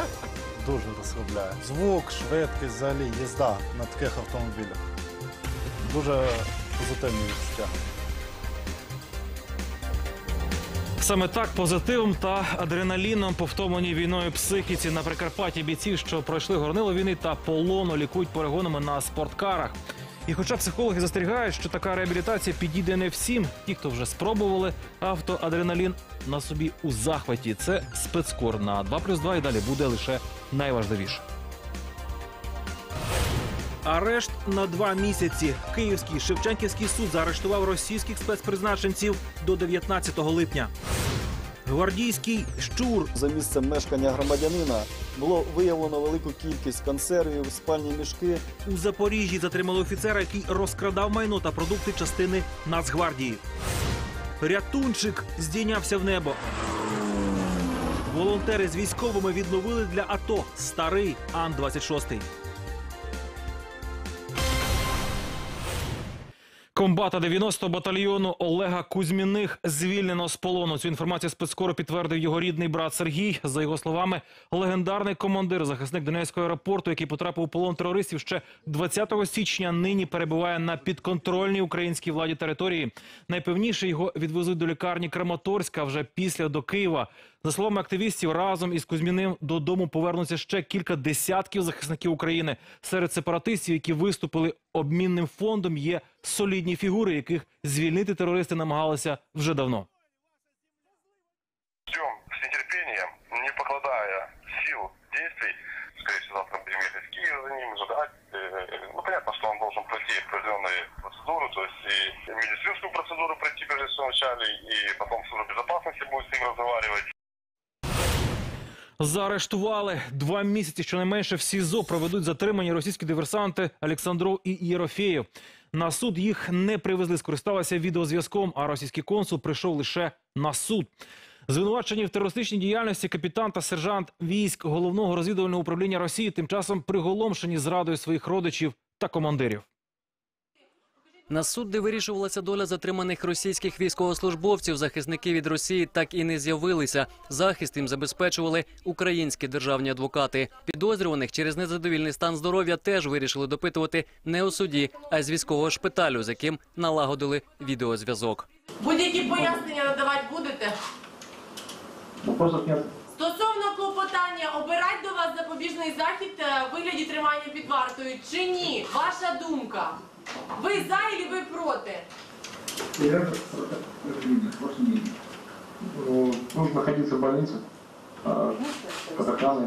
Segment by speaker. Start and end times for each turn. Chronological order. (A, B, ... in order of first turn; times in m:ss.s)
0:02.1-0:04.5 A
0:05.9-0:07.7 A
0:11.0-0:19.8 B
0:20.3-0:31.2 B
0:33.8-0:40.7 B
0:41.7-0:43.1 B
0:43.2-0:48.4 C
0:48.6-0:53.4 B
0:54.4-0:56.4 B
0:58.1-1:02.3 B
1:06.8-1:39.9 B
1:41.9-1:57.1 D
1:59.0-2:10.9 B
2:11.5-2:19.7 B
2:21.3-2:38.5 E
2:38.8-2:40.8 F
2:43.2-2:50.0 F
2:50.6-2:52.1 F
2:53.0-2:53.6 G
2:56.0-2:57.4 G